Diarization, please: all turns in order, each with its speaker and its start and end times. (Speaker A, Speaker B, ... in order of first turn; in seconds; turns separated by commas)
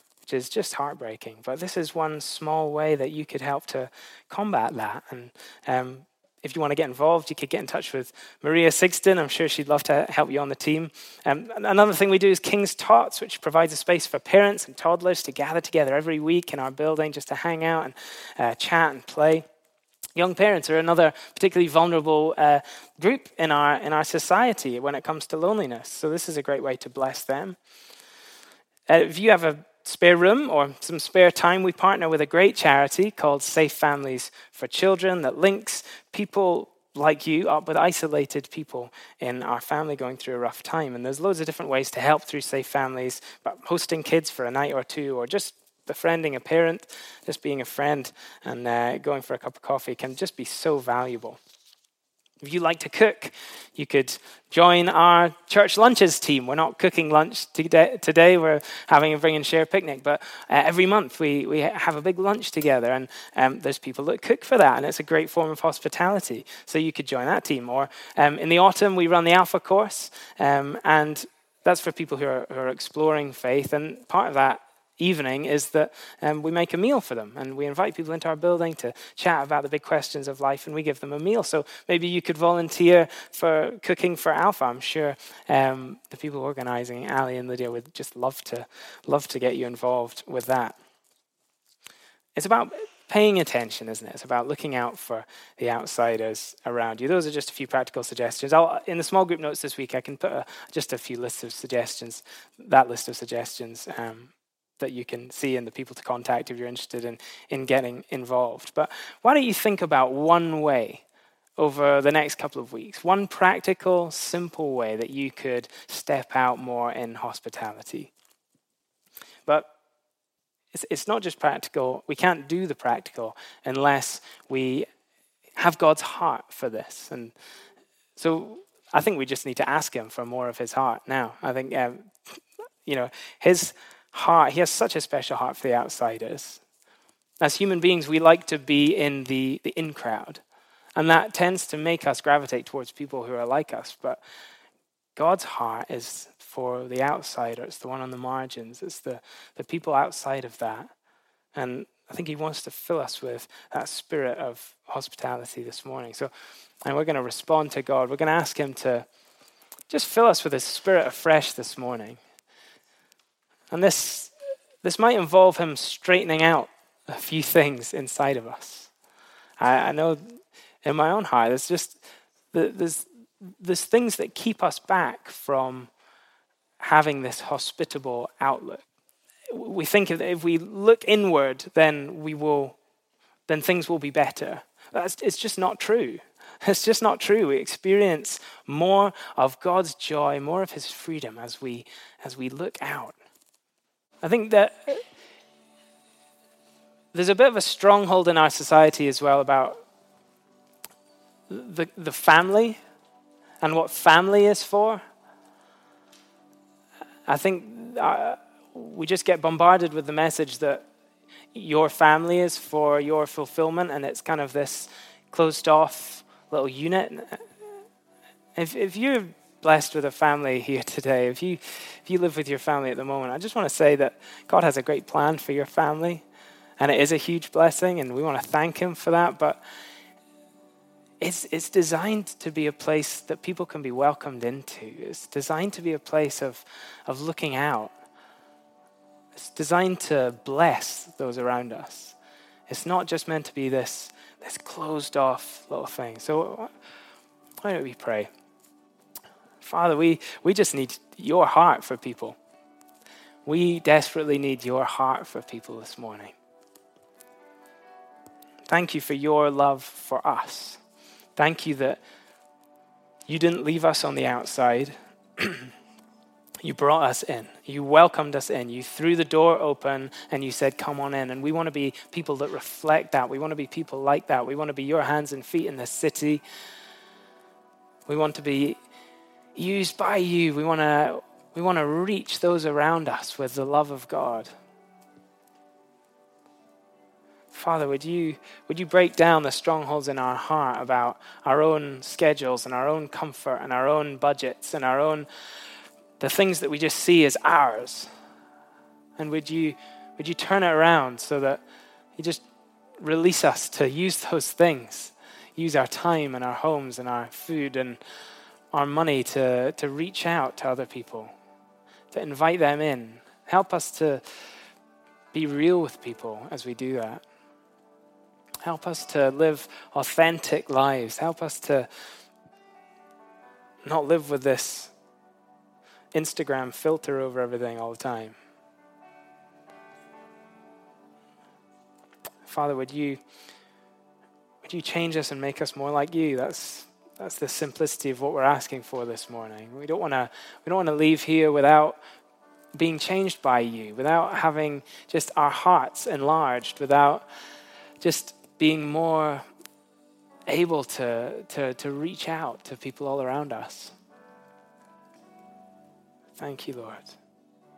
Speaker A: 0.2-19.4, Speaker A: 20.1-27.6, Speaker A: 28.9-51.4, Speaker A: 52.4-90.8, Speaker A: 92.3-111.0, Speaker A: 111.6-118.1, Speaker A: 119.5-119.7, Speaker A: 120.7-124.9, Speaker A: 125.5-127.3, Speaker A: 128.2-132.1, Speaker A: 132.8-136.6, Speaker A: 137.4-140.4, Speaker A: 140.9-144.2, Speaker A: 145.2-150.9, Speaker A: 151.5-156.3, Speaker A: 156.8-159.1, Speaker A: 159.9-162.2, Speaker A: 163.7-168.9, Speaker A: 169.6-170.2, Speaker A: 170.8-172.0, Speaker A: 172.5-175.9, Speaker A: 176.8-178.8, Speaker A: 179.5-182.8, Speaker A: 183.5-193.2, Speaker A: 194.2-195.0, Speaker A: 197.1-199.8, Speaker A: 201.5-202.8, Speaker A: 203.6-205.0, Speaker A: 207.3-210.8, Speaker A: 211.5-217.5, Speaker A: 218.6-226.2, Speaker A: 226.8-229.6, Speaker A: 231.2-237.9, Speaker A: 239.3-242.2, Speaker A: 242.7-246.7, Speaker A: 247.6-248.3, Speaker A: 249.6-252.4, Speaker A: 253.4-256.3, Speaker A: 258.7-260.8, Speaker A: 261.4-262.0, Speaker A: 263.3-265.7, Speaker A: 266.6-276.4, Speaker A: 278.1-278.8, Speaker A: 279.6-284.5, Speaker A: 287.5-295.3, Speaker A: 296.2-298.1, Speaker A: 299.2-301.6, Speaker A: 302.2-302.4, Speaker A: 303.0-308.0, Speaker A: 308.7-311.3, Speaker A: 312.1-314.2, Speaker A: 315.3-317.2, Speaker A: 318.6-321.9, Speaker A: 323.8-324.9, Speaker A: 326.1-328.4, Speaker A: 332.4-333.2, Speaker A: 334.6-342.0, Speaker A: 342.7-347.2, Speaker A: 348.0-349.4, Speaker A: 350.5-353.9, Speaker A: 356.4-357.2